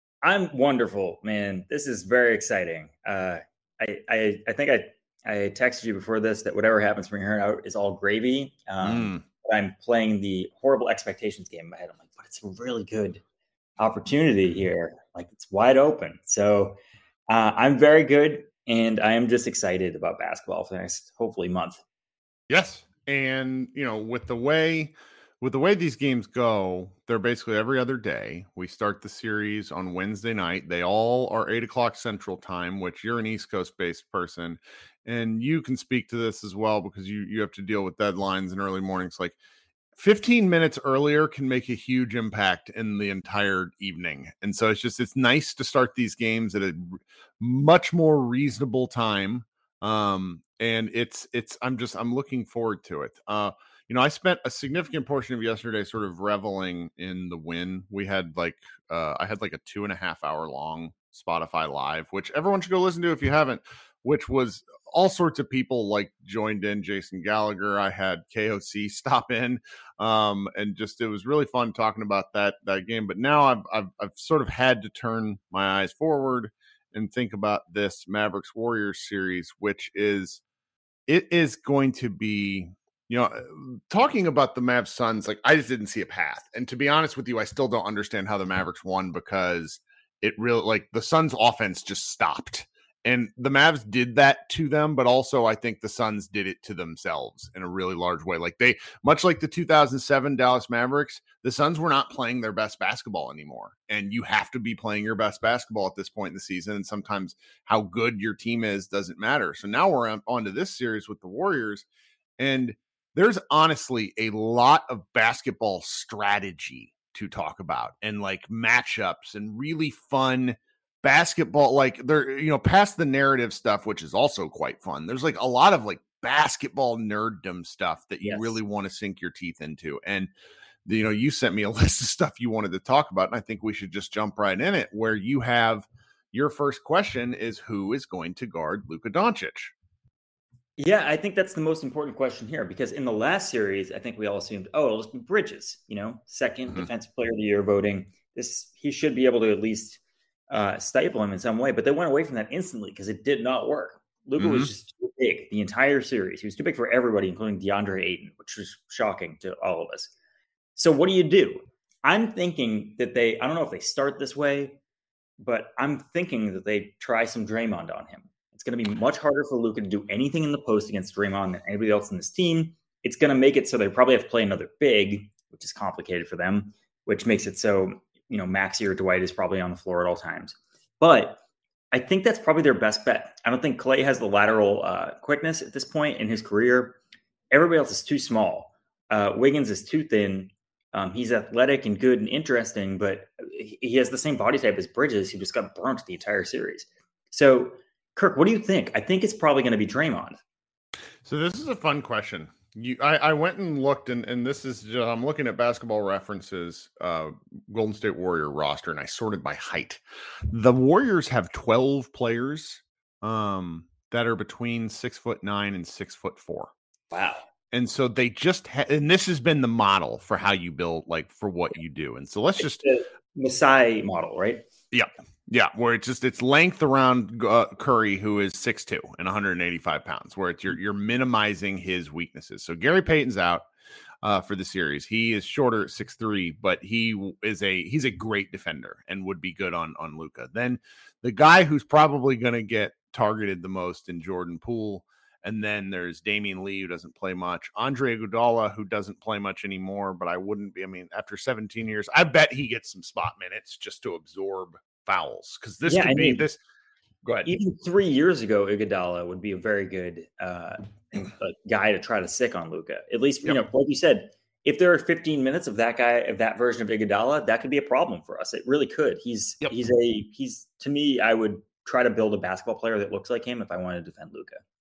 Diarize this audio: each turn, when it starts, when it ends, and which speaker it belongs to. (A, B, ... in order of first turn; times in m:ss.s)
0:00.2-0:13.2 A
0:08.8-0:09.2 B
0:13.8-0:16.8 A
0:17.3-0:21.8 A
0:22.5-0:39.4 B
0:40.0-1:20.4 B
1:21.1-1:51.9 B
1:52.4-2:10.3 B
2:08.2-2:08.6 A
2:10.9-2:19.7 B
2:20.8-2:40.1 A
2:34.4-2:34.7 B
2:40.8-2:44.8 A
2:45.4-3:01.4 A
3:01.9-3:07.0 A
3:07.5-3:20.4 A
3:21.2-3:36.7 B
3:37.1-3:37.5 A
3:37.7-3:42.8 B
3:42.6-3:44.6 A
3:44.9-3:53.7 B
3:54.2-4:16.6 B
4:15.9-4:16.4 A
4:17.2-4:17.5 B
4:17.4-4:34.6 A